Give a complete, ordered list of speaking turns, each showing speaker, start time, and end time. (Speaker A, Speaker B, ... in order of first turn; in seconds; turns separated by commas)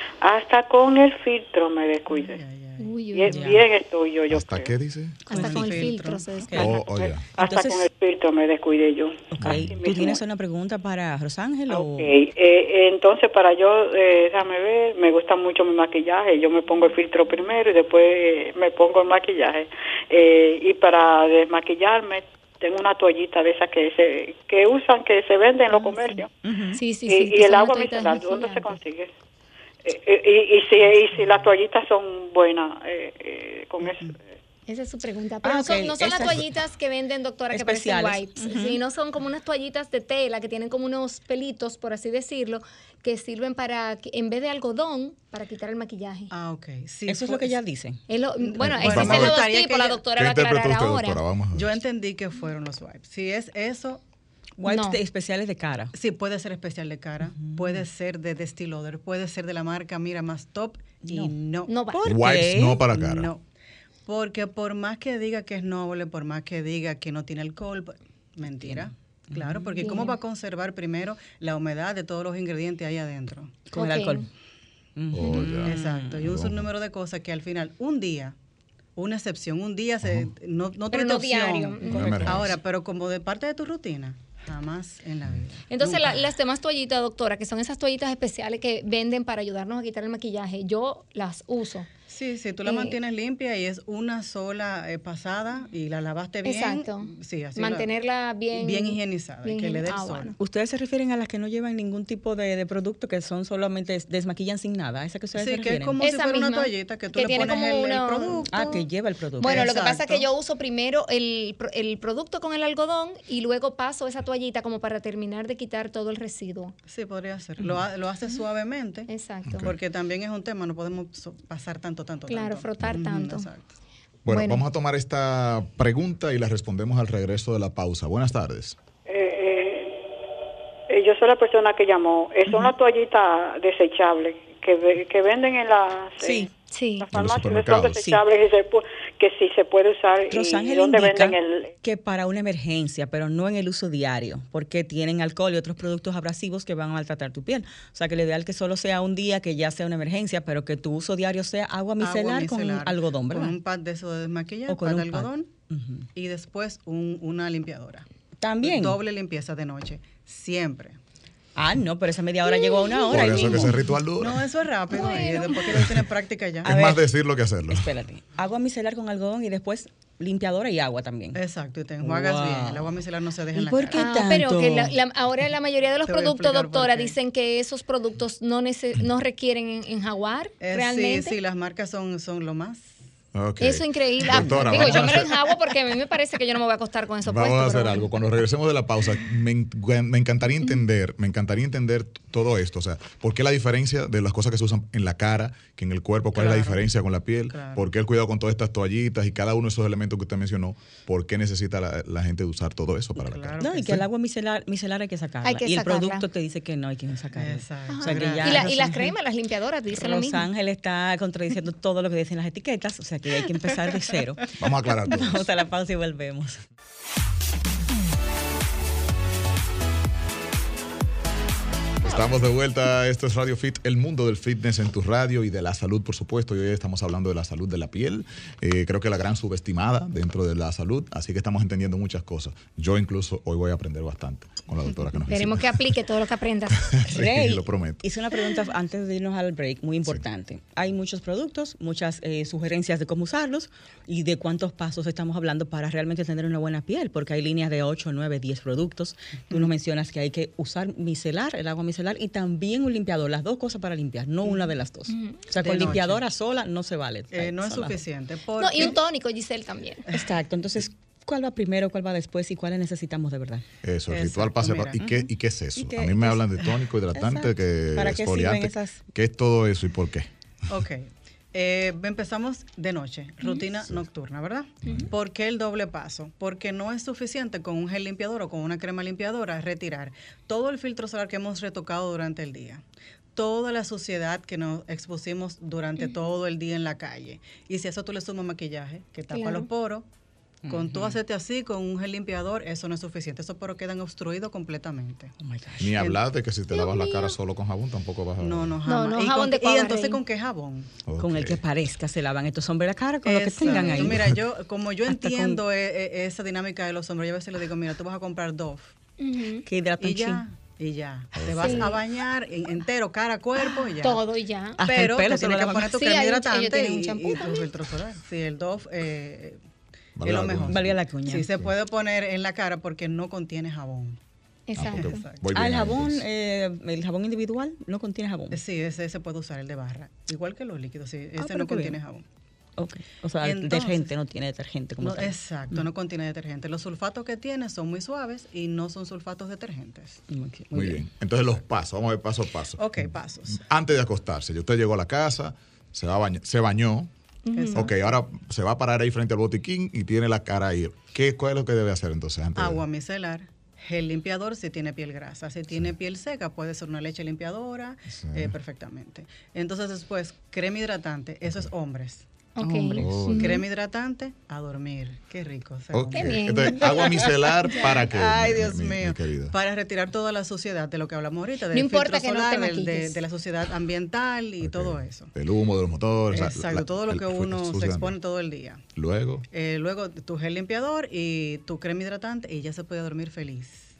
Speaker A: 0.2-2.4, Speaker B: 2.1-2.9, Speaker C: 2.8-3.4, Speaker A: 3.1-4.7, Speaker D: 3.3-3.6, Speaker E: 4.3-5.2, Speaker C: 5.3-6.7, Speaker B: 5.3-6.7, Speaker D: 5.3-5.8, Speaker E: 6.6-7.2, Speaker A: 6.6-10.2, Speaker D: 7.4-7.9, Speaker D: 9.3-12.1, Speaker E: 9.4-9.7, Speaker A: 11.7-26.3, Speaker C: 25.7-26.2, Speaker D: 26.4-26.8, Speaker C: 26.8-28.8, Speaker A: 27.1-29.1, Speaker A: 29.8-34.2, Speaker B: 33.8-34.1, Speaker C: 34.7-46.3, Speaker D: 35.4-36.4, Speaker D: 37.5-38.8, Speaker B: 46.3-47.6, Speaker D: 47.1-48.0, Speaker C: 48.1-51.2, Speaker B: 48.4-50.0, Speaker E: 48.6-49.4, Speaker E: 50.1-51.8, Speaker B: 51.5-54.0, Speaker D: 54.6-55.9, Speaker C: 54.6-55.0, Speaker B: 55.9-61.7, Speaker D: 57.4-57.8, Speaker D: 61.1-61.3, Speaker C: 61.7-62.0, Speaker D: 61.9-62.8, Speaker E: 62.0-63.3, Speaker B: 62.8-63.4, Speaker B: 64.0-73.5, Speaker D: 68.6-69.7, Speaker C: 69.8-70.2, Speaker D: 73.7-74.3, Speaker C: 73.7-74.2, Speaker D: 75.0-76.2, Speaker E: 75.1-76.7, Speaker B: 75.6-78.3, Speaker B: 79.0-86.3, Speaker E: 80.0-80.3, Speaker C: 80.9-82.4, Speaker E: 81.8-82.5, Speaker C: 85.7-91.9, Speaker B: 92.1-97.9, Speaker C: 92.6-92.9, Speaker C: 96.4-100.3, Speaker B: 98.5-100.3, Speaker D: 100.4-106.0, Speaker B: 105.3-108.8, Speaker C: 106.0-108.5, Speaker D: 108.5-109.7, Speaker C: 109.4-116.7, Speaker B: 109.4-110.3, Speaker B: 116.9-123.7, Speaker C: 119.1-119.7, Speaker E: 119.5-119.8, Speaker C: 122.3-123.5, Speaker E: 124.2-128.8, Speaker C: 124.3-124.6, Speaker A: 129.1-129.9, Speaker A: 130.9-136.5, Speaker D: 136.2-136.5, Speaker C: 136.7-137.1, Speaker A: 137.0-141.7, Speaker E: 137.1-138.1, Speaker D: 137.9-138.2, Speaker D: 140.3-153.6, Speaker B: 152.0-155.5, Speaker D: 154.7-156.1, Speaker B: 156.1-158.1, Speaker D: 158.4-159.0, Speaker B: 158.6-161.0, Speaker D: 161.6-163.8, Speaker C: 162.5-163.3, Speaker E: 163.1-164.5, Speaker B: 164.2-166.7, Speaker C: 164.9-165.7, Speaker D: 166.6-167.0, Speaker E: 166.6-167.9, Speaker D: 167.7-171.4, Speaker B: 171.3-174.0, Speaker D: 172.0-173.0, Speaker D: 173.5-174.9, Speaker C: 173.9-181.3, Speaker B: 176.1-177.1, Speaker B: 180.6-182.9, Speaker E: 183.3-185.3, Speaker C: 183.6-188.1, Speaker E: 187.2-204.0, Speaker B: 196.3-196.9, Speaker B: 197.5-197.9, Speaker B: 203.2-204.0, Speaker D: 203.6-209.1, Speaker C: 205.4-206.2, Speaker B: 207.3-209.0, Speaker C: 207.9-210.4, Speaker D: 209.9-216.6, Speaker E: 214.6-215.4, Speaker E: 222.0-235.9, Speaker C: 235.3-237.0, Speaker E: 236.8-238.0, Speaker D: 237.1-258.0, Speaker C: 255.1-255.4, Speaker B: 255.6-256.2, Speaker B: 257.3-259.0, Speaker C: 258.6-260.0, Speaker D: 260.1-263.6, Speaker E: 263.8-270.3, Speaker B: 264.1-265.1, Speaker D: 265.8-269.0, Speaker B: 270.7-282.8, Speaker E: 274.8-275.1, Speaker B: 283.3-290.1, Speaker C: 289.3-289.7, Speaker D: 290.6-291.2, Speaker B: 290.7-295.3, Speaker D: 295.4-296.1, Speaker E: 295.8-298.8, Speaker C: 296.7-297.3, Speaker B: 298.4-300.9, Speaker C: 298.9-300.2, Speaker E: 301.1-301.6, Speaker D: 301.2-304.3, Speaker B: 303.2-308.9, Speaker C: 303.7-304.1, Speaker E: 304.1-304.4, Speaker D: 305.1-305.6, Speaker C: 309.2-309.6, Speaker D: 309.7-310.4, Speaker B: 310.0-314.2, Speaker E: 311.4-312.0, Speaker C: 311.5-311.9, Speaker C: 313.6-314.8, Speaker D: 314.8-316.0, Speaker B: 314.8-319.6, Speaker C: 315.9-317.7, Speaker E: 320.2-321.0, Speaker B: 320.2-324.2, Speaker D: 320.7-321.5, Speaker C: 324.7-325.2, Speaker E: 324.8-326.2, Speaker B: 324.9-325.4, Speaker D: 325.5-328.6, Speaker B: 328.5-332.2, Speaker D: 331.4-332.0, Speaker D: 332.8-335.8, Speaker B: 333.4-334.1, Speaker B: 335.0-340.2, Speaker D: 340.3-341.0, Speaker E: 340.7-347.1, Speaker B: 342.8-343.6, Speaker C: 347.4-347.9, Speaker B: 347.5-348.1, Speaker E: 347.7-352.8, Speaker B: 352.6-362.2, Speaker E: 358.1-358.6, Speaker C: 362.6-363.6, Speaker B: 362.8-367.2, Speaker E: 363.0-363.6, Speaker E: 365.9-369.6, Speaker C: 366.1-367.8, Speaker B: 367.8-375.3, Speaker C: 371.7-373.2, Speaker E: 374.6-378.1, Speaker B: 376.3-378.8, Speaker E: 378.9-379.4, Speaker B: 379.5-383.9